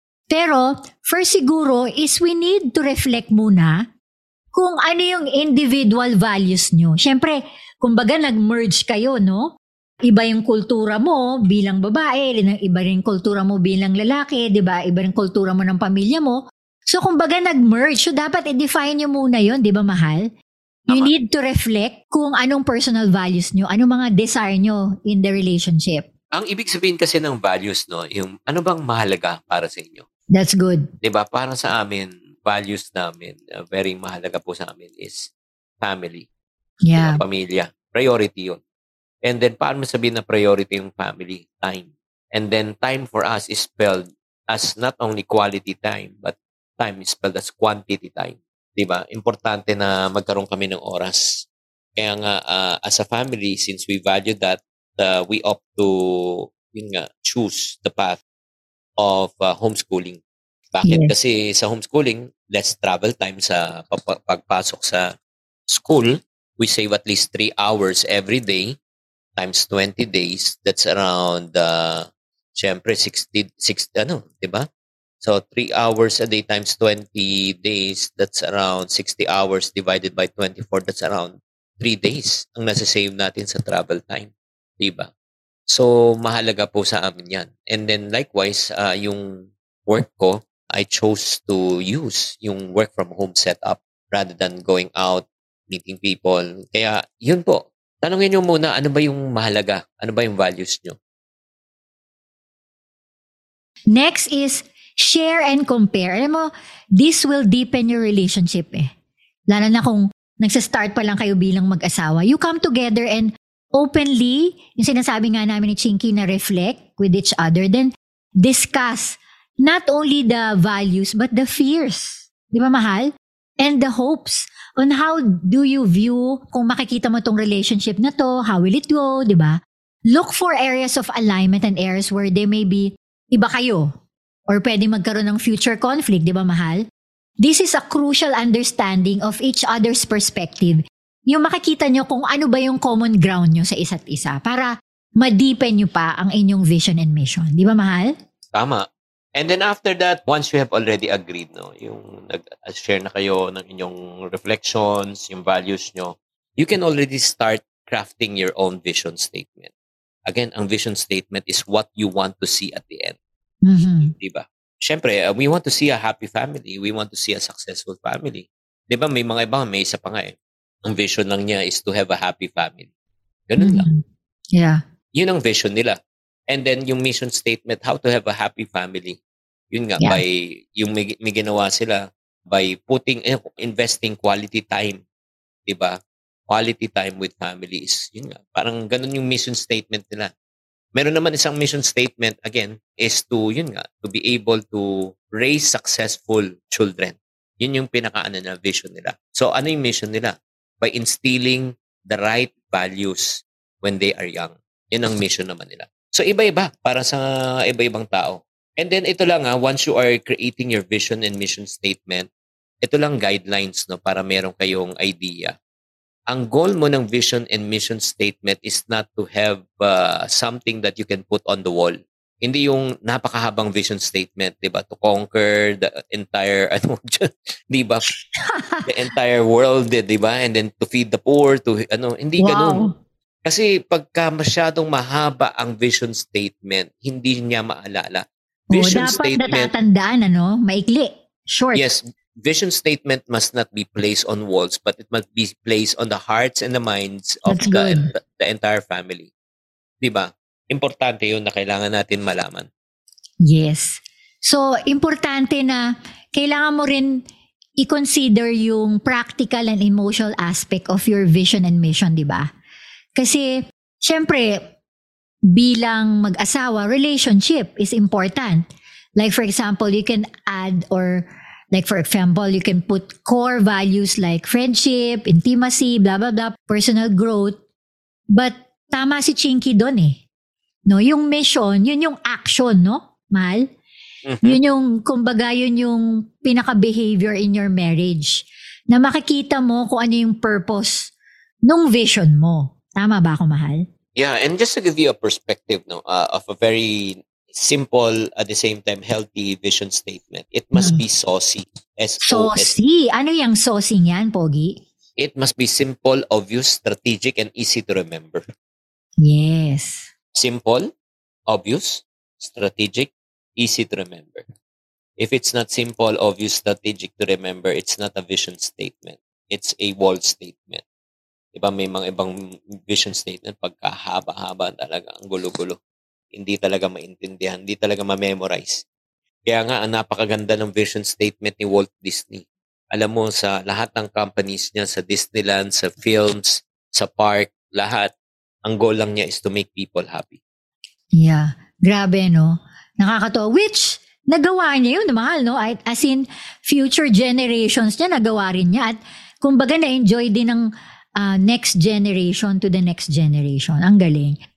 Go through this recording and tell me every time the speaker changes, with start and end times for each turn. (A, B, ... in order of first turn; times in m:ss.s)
0:00.3-0:03.8 A
0:04.5-0:09.5 A
0:10.1-0:16.4 A
0:16.9-0:20.3 A
0:20.9-0:26.1 A
0:26.3-0:30.0 B
0:30.3-0:30.9 A
0:31.0-0:36.3 B
0:36.8-0:37.2 A
0:37.0-0:38.6 B
0:39.2-0:58.2 B
0:59.0-1:00.2 B
1:00.7-1:05.1 B
1:00.8-1:01.1 A
1:05.7-1:08.7 B
1:09.4-1:14.6 B
1:15.2-1:25.1 B
1:25.7-1:41.0 B
1:43.9-1:48.9 A
1:49.5-2:09.6 A
2:10.1-2:13.9 A
2:14.5-2:16.8 A
2:17.4-2:28.1 A
2:28.5-2:39.7 B
2:40.3-2:43.2 B
2:43.6-2:44.1 A
2:44.0-2:52.9 B
2:53.5-2:53.9 B
2:53.6-2:54.0 A
2:54.5-2:54.8 A
2:55.1-2:56.0 B
2:56.5-2:59.2 B
2:59.7-3:05.0 B
3:05.7-3:06.0 B
3:06.5-3:10.3 B
3:11.0-3:32.3 B
3:32.8-3:35.6 B
3:36.3-3:48.0 B
3:48.4-3:48.9 A
3:48.9-3:52.9 B
3:52.4-3:52.9 A
3:53.4-3:59.7 B
3:58.7-4:01.8 A
4:01.7-4:09.3 B
4:07.5-4:08.1 A
4:10.0-4:12.7 B
4:13.4-4:17.2 A
4:17.8-4:22.5 A
4:23.2-4:24.6 A
4:25.5-4:28.6 A
4:29.2-4:37.6 A
4:38.3-4:40.2 A
4:40.9-4:43.6 A
4:44.2-4:44.6 B
4:44.4-4:51.1 A
4:51.7-4:53.8 A
4:54.2-5:02.8 B
5:00.7-5:01.0 A
5:02.2-5:04.8 A
5:05.2-5:08.4 B
5:09.2-5:10.1 A
5:10.3-5:10.9 B
5:11.5-5:14.4 B
5:15.2-5:20.8 B
5:21.5-5:22.3 B
5:22.8-5:25.8 B
5:26.3-5:28.8 B
5:29.5-5:38.1 B
5:38.6-5:40.4 B
5:41.2-5:50.7 A
5:51.2-5:54.4 A